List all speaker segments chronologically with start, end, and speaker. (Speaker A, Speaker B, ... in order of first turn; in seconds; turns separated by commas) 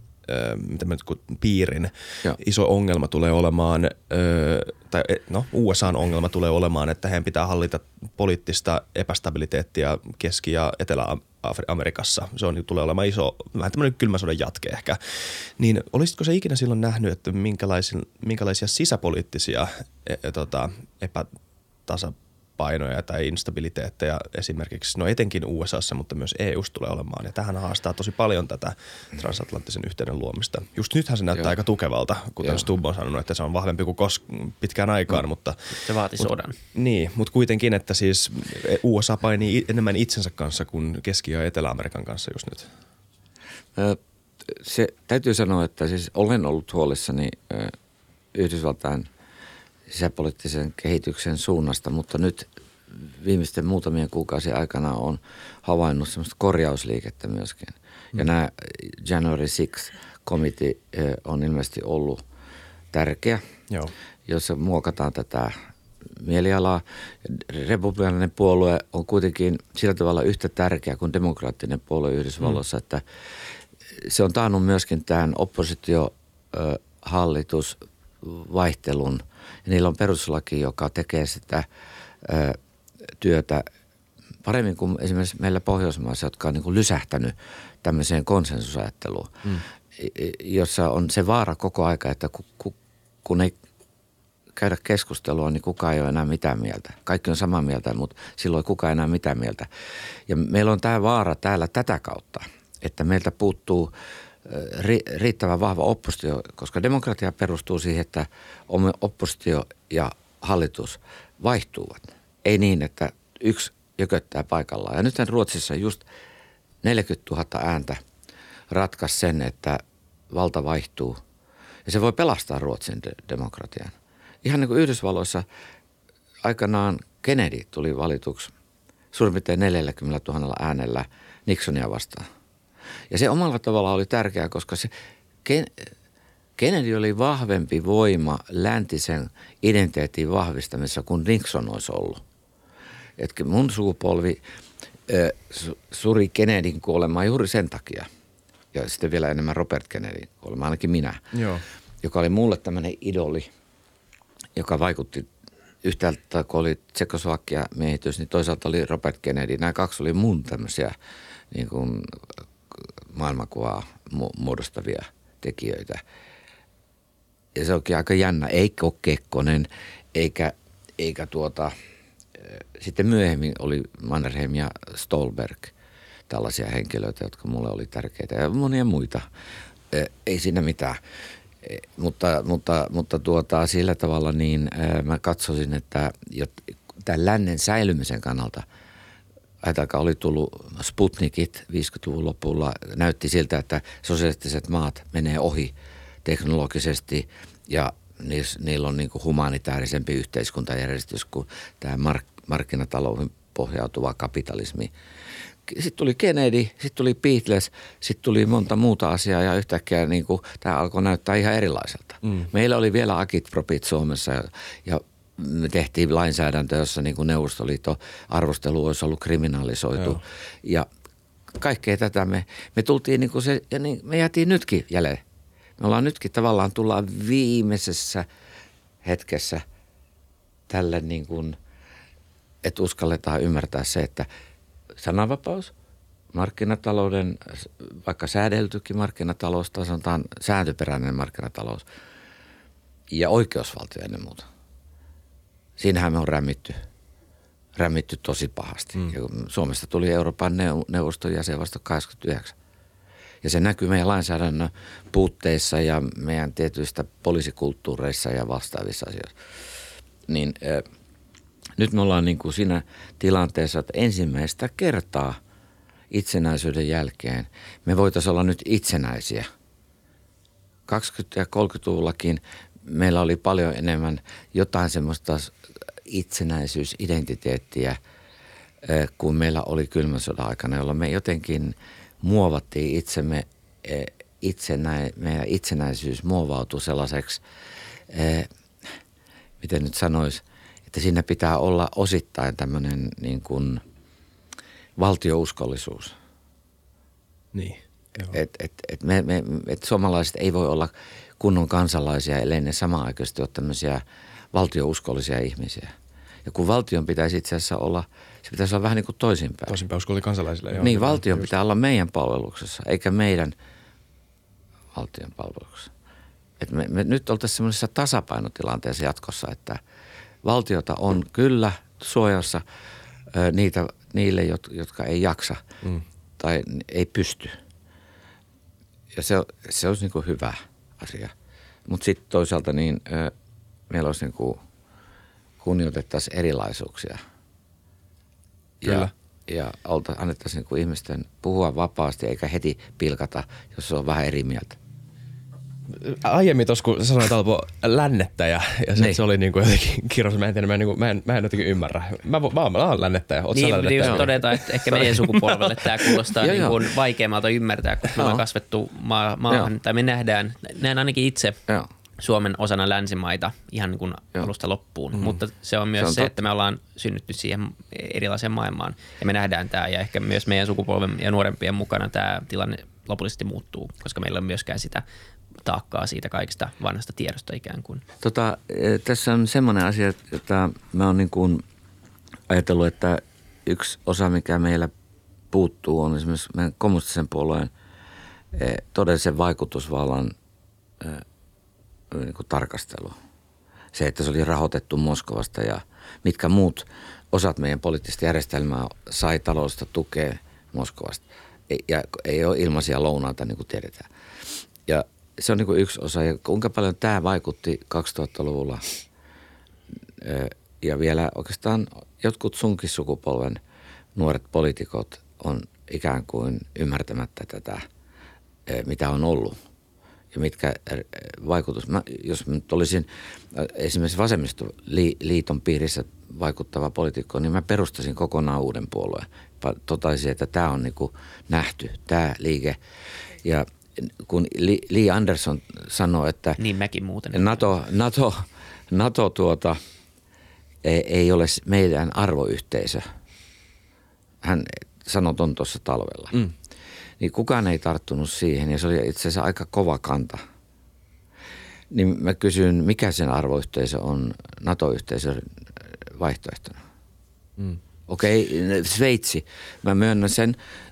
Speaker A: 0.2-21.3, Speaker A: 21.9-42.7, Speaker B: 35.8-36.6, Speaker C: 43.8-47.7, Speaker C: 48.3-49.1, Speaker C: 49.9-62.2, Speaker C: 62.9-63.4, Speaker C: 64.2-65.5, Speaker C: 66.1-73.0, Speaker C: 74.0-81.7, Speaker C: 82.2-82.6, Speaker C: 83.2-83.7, Speaker C: 84.4-93.5, Speaker C: 94.5-99.7, Speaker C: 100.3-103.9, Speaker C: 104.4-116.0, Speaker C: 116.8-118.0, Speaker C: 118.7-121.2, Speaker C: 121.8-125.4, Speaker C: 126.4-128.5, Speaker C: 129.1-132.2, Speaker C: 133.1-134.9, Speaker C: 135.4-135.9, Speaker C: 136.6-142.2, Speaker C: 143.2-144.4, Speaker C: 145.1-148.1, Speaker C: 148.7-151.3, Speaker A: 151.3-151.6, Speaker C: 152.0-153.5, Speaker C: 154.6-155.3, Speaker C: 155.8-160.9, Speaker C: 161.5-162.2, Speaker C: 162.7-166.0, Speaker C: 167.5-171.7, Speaker C: 172.3-175.7, Speaker C: 176.3-179.3, Speaker C: 179.9-181.0, Speaker C: 181.6-188.7, Speaker C: 189.6-204.9, Speaker C: 205.7-220.9, Speaker A: 212.2-212.5, Speaker C: 221.6-225.2, Speaker C: 225.8-228.3, Speaker C: 229.0-229.6, Speaker C: 230.7-231.6, Speaker C: 232.6-234.3, Speaker C: 235.0-235.7, Speaker C: 236.3-241.8, Speaker C: 243.1-244.5, Speaker C: 245.8-246.8, Speaker C: 247.8-252.6, Speaker C: 253.4-259.3, Speaker C: 260.3-260.8, Speaker C: 261.8-265.4, Speaker C: 266.1-269.5, Speaker C: 270.9-275.5, Speaker C: 276.1-278.0, Speaker C: 278.8-287.4, Speaker C: 288.1-288.5, Speaker C: 289.6-293.8, Speaker C: 295.0-296.1, Speaker A: 297.5-298.4, Speaker C: 298.3-304.0, Speaker C: 304.5-305.9, Speaker C: 306.4-309.8, Speaker A: 309.7-311.5, Speaker C: 310.8-313.5, Speaker C: 314.9-315.9, Speaker C: 316.6-319.8, Speaker C: 320.4-322.6, Speaker C: 323.3-325.6, Speaker C: 326.4-327.6, Speaker C: 329.1-331.3, Speaker C: 331.9-333.3, Speaker C: 333.9-334.6, Speaker C: 335.6-337.2, Speaker C: 338.8-344.8, Speaker A: 338.8-339.1, Speaker A: 345.9-356.2, Speaker B: 353.5-361.6, Speaker C: 356.4-356.8, Speaker C: 358.1-358.4, Speaker B: 362.2-375.0, Speaker C: 365.9-366.3, Speaker B: 375.6-378.0, Speaker C: 378.2-381.6, Speaker C: 382.5-384.9, Speaker C: 385.5-387.7, Speaker C: 388.5-390.3, Speaker C: 391.0-391.2, Speaker C: 392.1-393.1, Speaker C: 393.9-404.1, Speaker C: 404.9-408.9, Speaker C: 410.2-413.6, Speaker C: 414.1-417.8, Speaker C: 418.6-419.6, Speaker C: 420.3-432.8, Speaker C: 433.4-436.6, Speaker B: 436.6-437.8, Speaker C: 437.3-439.8, Speaker C: 440.8-443.0, Speaker C: 444.4-446.4, Speaker C: 447.2-450.4, Speaker C: 451.9-456.8, Speaker C: 458.1-460.6